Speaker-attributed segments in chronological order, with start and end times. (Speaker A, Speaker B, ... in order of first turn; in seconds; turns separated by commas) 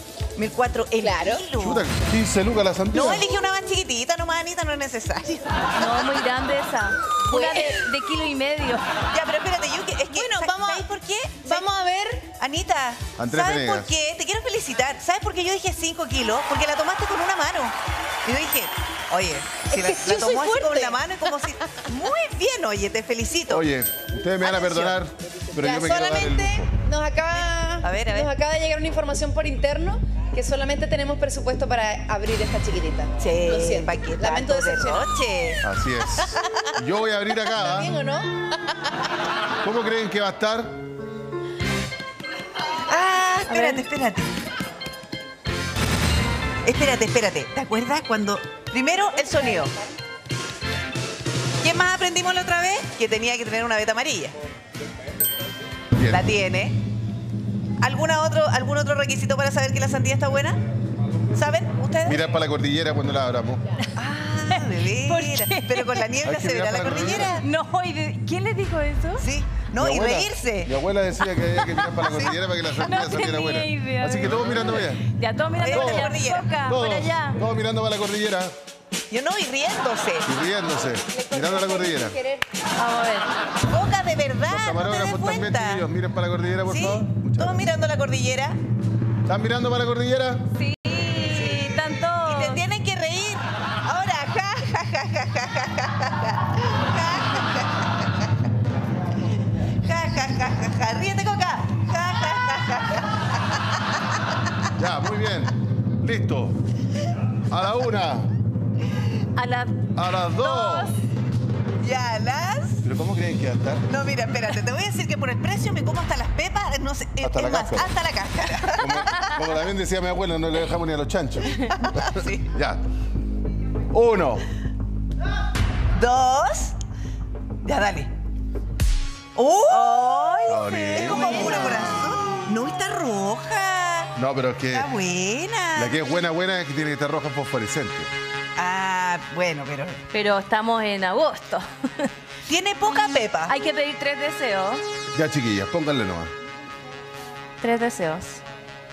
Speaker A: 0.4-1.9, Speaker B: 1.0-1.4, Speaker C: 1.6-3.3, Speaker A: 2.9-5.6, Speaker D: 5.8-8.8, Speaker B: 7.3-7.8, Speaker A: 9.1-11.7, Speaker B: 10.1-10.8, Speaker B: 11.4-12.3, Speaker A: 12.4-23.6, Speaker C: 13.2-13.9, Speaker B: 19.7-21.6, Speaker C: 23.5-26.7, Speaker A: 24.4-25.0, Speaker B: 25.6-35.1, Speaker A: 27.3-28.3, Speaker A: 33.2-35.6, Speaker C: 35.6-37.9, Speaker B: 37.4-38.9, Speaker C: 39.6-40.8, Speaker A: 42.9-44.3, Speaker D: 43.5-43.8, Speaker A: 46.6-49.7, Speaker B: 49.3-49.7, Speaker A: 51.6-54.3, Speaker C: 56.0-56.2, Speaker A: 56.1-56.8, Speaker A: 57.8-60.6, Speaker A: 61.3-62.3, Speaker C: 62.1-63.6, Speaker A: 64.0-67.5, Speaker D: 64.5-66.1, Speaker C: 66.2-67.4, Speaker D: 67.1-69.2, Speaker A: 69.2-70.7, Speaker C: 69.8-75.0, Speaker D: 71.6-72.2, Speaker A: 72.0-72.4, Speaker D: 72.8-77.4, Speaker A: 75.6-76.5, Speaker C: 75.7-78.5, Speaker A: 79.1-80.3, Speaker C: 80.3-82.2, Speaker B: 81.1-82.5, Speaker D: 82.8-83.3, Speaker A: 83.7-85.8, Speaker C: 84.5-87.7, Speaker A: 86.7-88.6, Speaker C: 89.3-90.4, Speaker D: 90.5-92.6, Speaker A: 91.3-91.6, Speaker A: 92.2-98.0, Speaker A: 99.8-104.0, Speaker C: 104.8-106.6, Speaker C: 107.5-108.3, Speaker D: 109.3-111.0, Speaker C: 110.0-110.9, Speaker A: 111.8-112.8, Speaker C: 112.8-113.9, Speaker A: 113.9-119.3, Speaker C: 117.2-117.9, Speaker C: 118.8-122.8, Speaker A: 121.5-122.5, Speaker C: 123.9-124.4, Speaker A: 126.0-126.8, Speaker A: 127.6-128.1, Speaker A: 129.4-134.1, Speaker D: 129.8-131.8, Speaker C: 130.5-132.1, Speaker C: 134.2-134.9, Speaker A: 134.7-135.9, Speaker C: 135.8-138.1, Speaker A: 138.6-140.0, Speaker D: 140.1-142.1, Speaker A: 142.5-143.6, Speaker D: 143.5-144.8, Speaker C: 145.1-146.3, Speaker D: 147.6-148.4